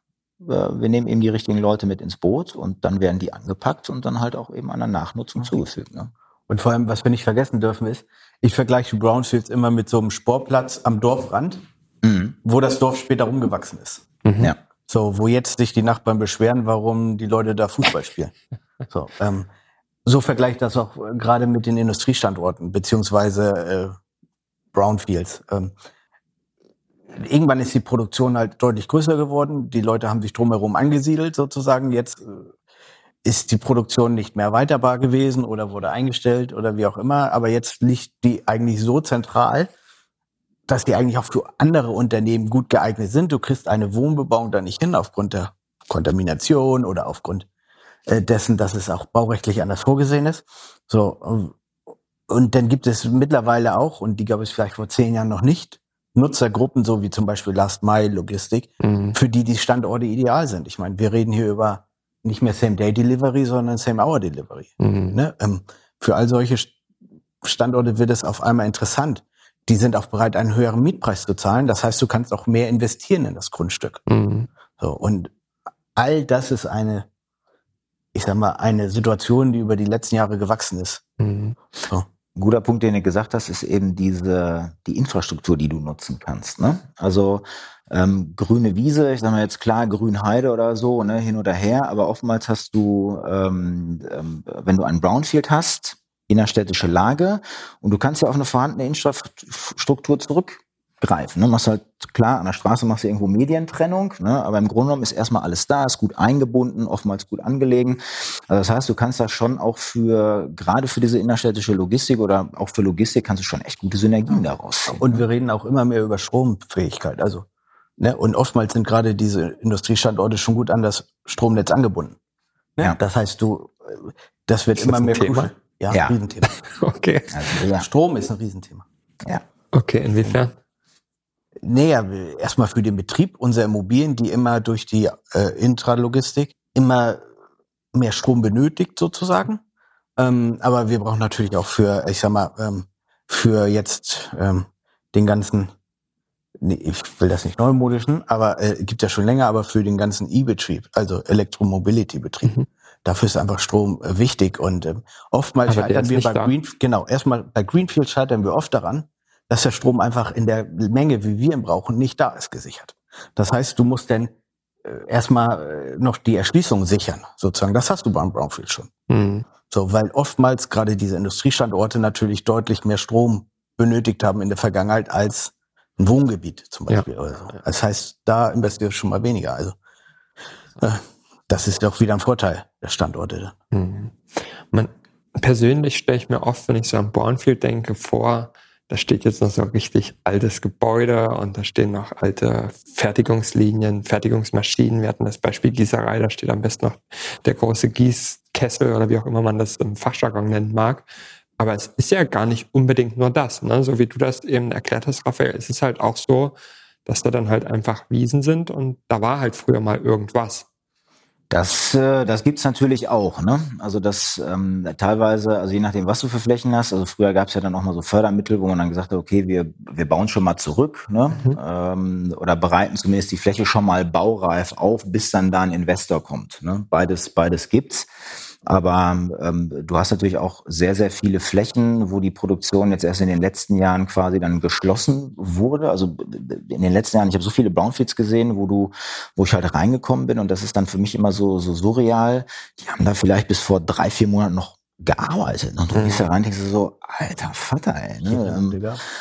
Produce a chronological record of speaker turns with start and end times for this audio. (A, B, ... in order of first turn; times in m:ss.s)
0:00.4-0:06.1 A
0:06.5-0:11.6 B
0:12.0-0:12.4 A
0:12.4-0:14.0 B
0:14.2-0:14.5 C
0:14.9-0:18.3 B
0:18.9-0:19.5 B
0:20.1-0:24.0 B
0:24.7-0:25.7 B
0:27.1-0:32.5 B
0:33.2-0:39.7 B
0:40.7-0:47.5 B
0:48.1-0:51.6 B
0:52.3-1:06.7 B
0:58.8-0:59.2 C
1:04.8-1:05.2 C
1:07.4-1:14.0 B
1:14.1-1:14.5 C
1:14.8-1:15.3 B
1:16.0-1:17.1 B
1:18.1-1:21.0 B
1:21.2-1:21.6 C
1:22.4-1:55.2 A
1:54.9-1:57.4 B
1:58.0-2:02.2 B
2:02.8-2:06.5 B
2:04.8-2:05.5 C
2:06.5-2:07.4 C
2:07.3-2:07.9 A
2:07.8-2:08.8 B
2:09.7-2:10.5 C
2:11.6-2:17.3 B
2:17.9-2:19.6 B
2:20.2-2:25.7 B
2:26.6-2:44.3 B
2:35.7-2:36.5 C
2:44.8-2:48.9 B
2:49.1-2:49.4 C
2:49.7-2:59.8 B
3:00.8-3:03.6 B
3:03.7-3:04.2 C
3:04.7-3:21.1 C
3:21.6-3:30.7 C
3:31.5-3:48.1 A
3:48.7-4:08.8 A
4:05.9-4:06.3 C
4:08.3-4:09.0 B